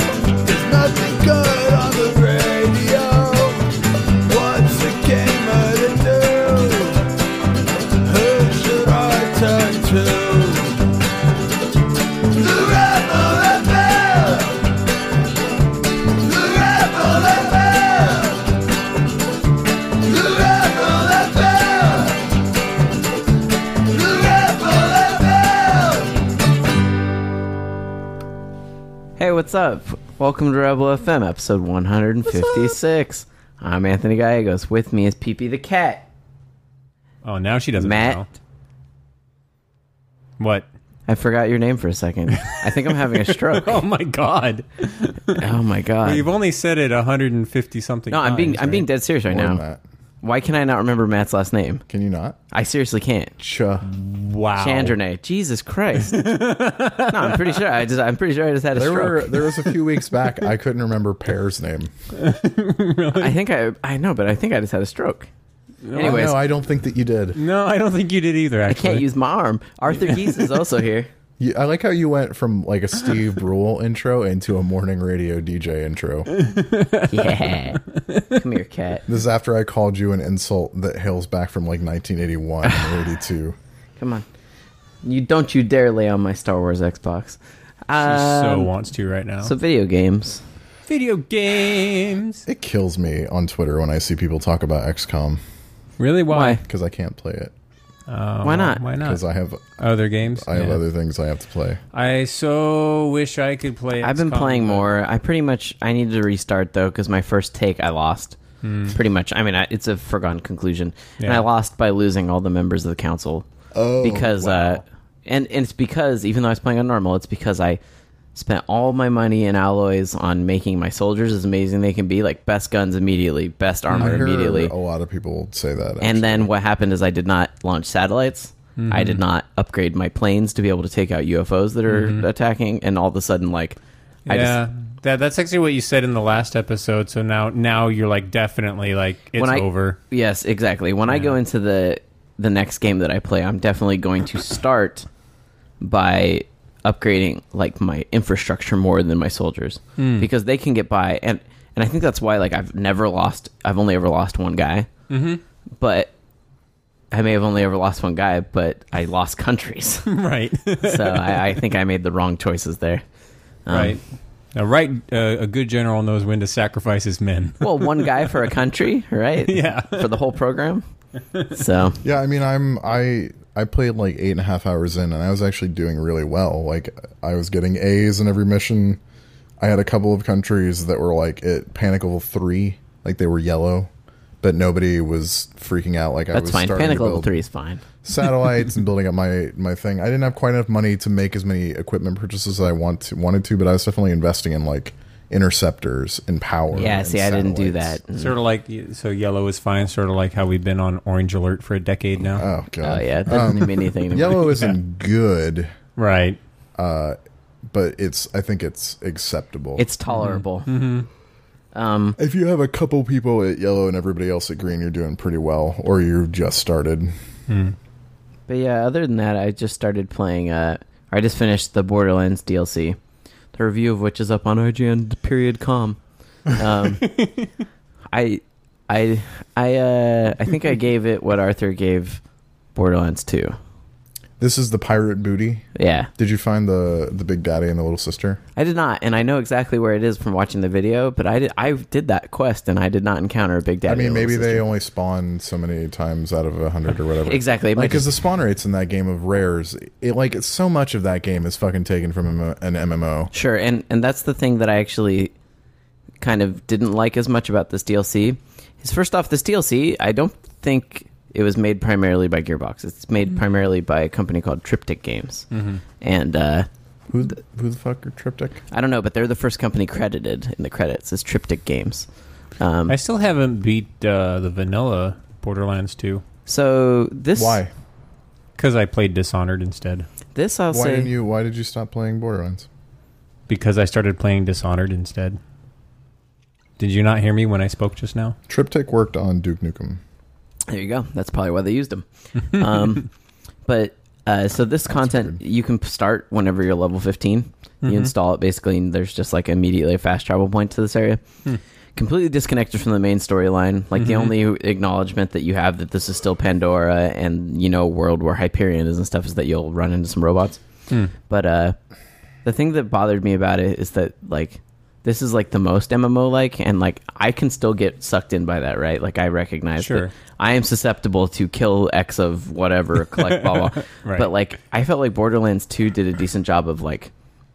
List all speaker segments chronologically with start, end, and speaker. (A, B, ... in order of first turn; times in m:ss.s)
0:00.4-0:03.6 A
0:04.2-0:07.0 A
0:08.0-0:10.8 A
0:12.2-0:14.6 A
0:16.1-0:18.4 A
0:20.0-0:22.2 A
0:23.8-0:26.0 A
0:29.2-0:36.1 B
0:37.2-0:38.3 C
0:37.8-0:38.2 B
0:40.4-0:40.6 C
0:41.1-0:43.8 B
0:42.4-0:45.5 C
0:45.4-0:46.3 B
0:46.0-0:48.8 C
0:48.1-0:49.6 B
0:49.3-0:49.8 D
0:50.2-0:51.8 B
0:51.9-0:52.4 D
0:52.5-0:53.3 B
0:53.4-0:53.9 D
0:53.8-0:54.9 C
0:54.6-0:56.3 B
0:56.0-0:57.6 C
0:57.1-0:59.3 B
0:58.7-1:01.9 D
1:02.1-1:03.3 C
1:03.1-1:05.3 B
1:05.8-1:06.3 C
1:05.9-1:06.3 B
1:06.0-1:07.4 D
1:07.3-1:09.0 C
1:08.7-1:11.1 B
1:10.1-1:10.4 C
1:11.4-1:16.3 D
1:16.3-1:18.4 C
1:17.1-1:19.0 B
1:19.1-1:23.6 D
1:24.0-1:24.2 B
1:25.0-1:28.7 B
1:28.0-1:29.5 C
1:29.4-1:30.4 B
1:30.9-1:32.4 C
1:32.4-1:35.4 D
1:36.0-1:36.6 C
1:36.3-1:36.6 B
1:36.6-1:37.5 D
1:38.1-1:39.2 C
1:38.4-1:38.8 B
1:39.0-1:39.7 D
1:39.8-1:40.8 C
1:40.3-1:41.8 D
1:41.9-1:44.9 C
1:44.0-1:53.4 B
1:48.6-1:49.0 C
1:51.2-1:51.4 C
1:53.7-1:54.7 D
1:54.0-1:57.8 B
1:58.3-2:04.7 B
2:03.9-2:04.2 C
2:04.0-2:06.5 D
2:06.0-2:14.6 B
2:08.8-2:09.2 C
2:11.9-2:12.3 C
2:14.3-2:20.0 C
2:19.4-2:25.1 B
2:25.8-2:34.9 B
2:30.0-2:30.3 C
2:35.1-2:35.4 C
2:35.8-2:36.1 B
2:37.1-2:40.1 B
2:40.1-2:41.4 C
2:40.8-2:43.0 B
2:43.6-2:44.0 B
2:43.7-2:44.0 C
2:44.5-2:48.4 C
2:47.6-2:50.8 B
2:49.5-2:50.2 C
2:51.5-2:52.0 B
2:52.0-2:59.0 D
2:59.6-3:03.9 D
3:04.4-3:07.4 D
3:06.3-3:07.8 B
3:08.0-3:18.0 D
3:16.8-3:18.3 B
3:18.2-3:22.4 C
3:22.3-3:25.7 D
3:22.8-3:24.6 B
3:26.0-3:26.4 C
3:26.8-3:27.2 D
3:27.7-3:29.8 D
3:29.8-3:30.7 B
3:30.1-3:31.1 C
3:31.7-3:32.2 B
3:32.2-3:37.1 D
3:37.5-3:37.8 C
3:38.5-3:43.0 B
3:43.5-3:47.1 B
3:47.0-3:47.4 C
3:48.1-3:52.2 B
3:52.7-3:53.6 B
3:54.4-3:55.7 D
3:55.7-3:56.1 B
3:56.2-3:58.4 D
3:58.6-4:04.6 B
4:03.8-4:13.3 D
4:07.2-4:08.1 B
4:13.3-4:15.3 B
4:16.2-4:25.5 B
4:25.5-4:25.8 C
4:26.0-4:26.7 B
4:27.1-4:28.6 D
4:28.7-4:32.1 B
4:32.6-4:33.0 B
4:32.9-4:36.2 C
4:36.4-4:37.6 B
4:37.4-4:37.7 D
4:38.6-4:40.1 C
4:40.3-4:41.1 B
4:40.7-4:42.7 D
4:43.5-4:45.4 C
4:46.8-4:48.4 C
4:48.5-4:50.0 D
4:50.7-4:53.1 B
4:53.6-5:01.2 B
4:54.9-4:55.4 D
4:57.8-4:58.1 C
5:02.0-5:10.6 B
5:04.0-5:04.3 C
5:11.3-5:11.8 B
5:12.4-5:27.1 B
5:19.8-5:20.1 C
5:23.2-5:24.3 C